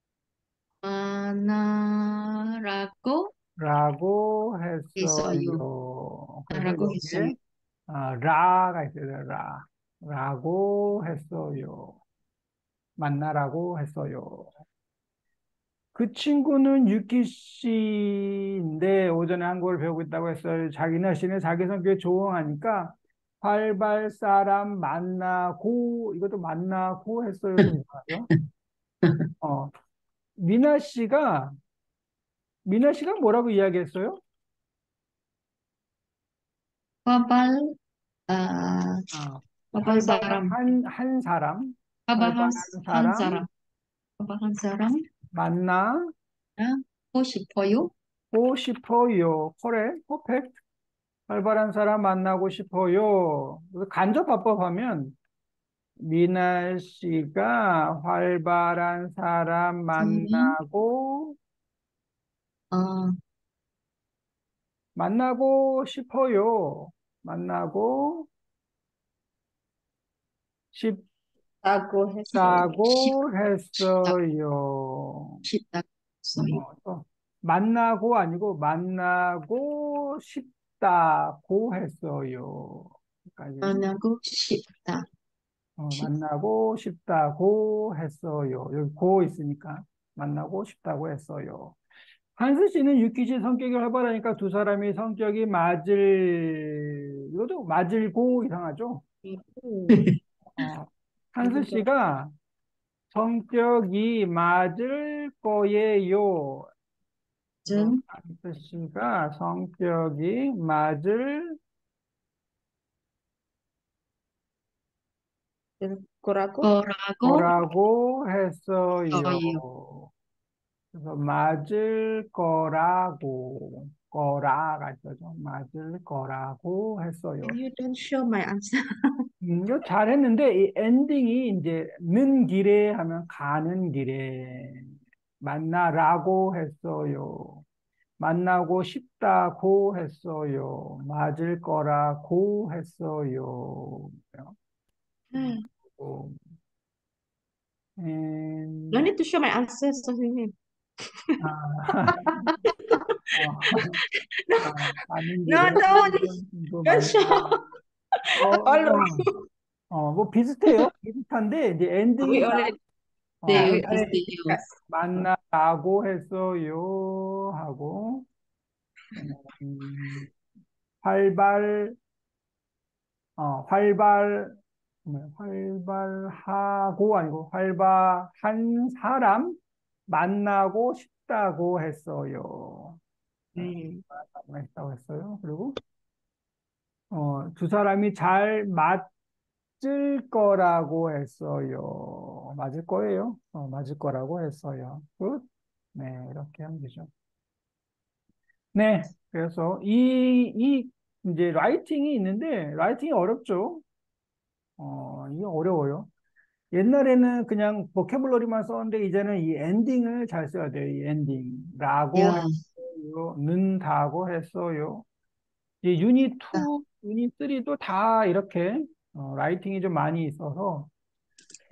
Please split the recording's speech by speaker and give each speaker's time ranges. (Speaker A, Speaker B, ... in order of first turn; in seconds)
Speaker A: 0.8-3.3, 5.0-5.6, 6.5-7.4, 37.1-37.8, 38.3-39.1, 39.7-40.6, 42.1-43.5, 44.2-45.0, 46.6-47.9, 60.0-60.6, 62.7-63.2, 75.5-76.6, 83.6-85.1, 107.7-108.0, 116.6-117.5, 119.1-119.6, 163.5-164.6, 212.1-212.6
Speaker B: 3.6-7.4, 7.9-12.0, 13.0-14.5, 15.9-28.3, 29.4-29.7, 30.4-31.6, 32.7-34.2, 39.1-43.4, 45.3-46.1, 48.3-50.6, 51.3-55.2, 56.0-61.4, 65.0-68.3, 70.7-71.0, 72.3-75.4, 76.4-83.8, 85.8-91.8, 92.4-99.0, 100.6-102.3, 103.1-106.7, 107.7-111.6, 117.2-120.1, 120.9-127.6, 129.4-137.6, 138.2-144.6, 145.3-146.4, 148.0-149.1, 151.4-152.6, 153.3-154.0, 154.6-157.7, 158.3-159.2, 159.9-162.7, 163.4-163.8, 164.9-168.3, 169.2-170.3, 171.0-172.0, 173.4-183.0, 183.6-185.8, 187.1-189.1, 189.8-197.1, 198.7-203.8, 204.8-206.1, 206.7-215.1, 215.8-220.9
Speaker C: 71.6-72.8, 99.2-100.2, 101.4-101.9, 115.8-116.7, 127.4-129.2, 145.3-145.7, 148.9-150.5, 152.3-156.3, 156.9-157.7, 158.3-159.5, 162.2-162.8, 163.5-164.7, 183.6-184.0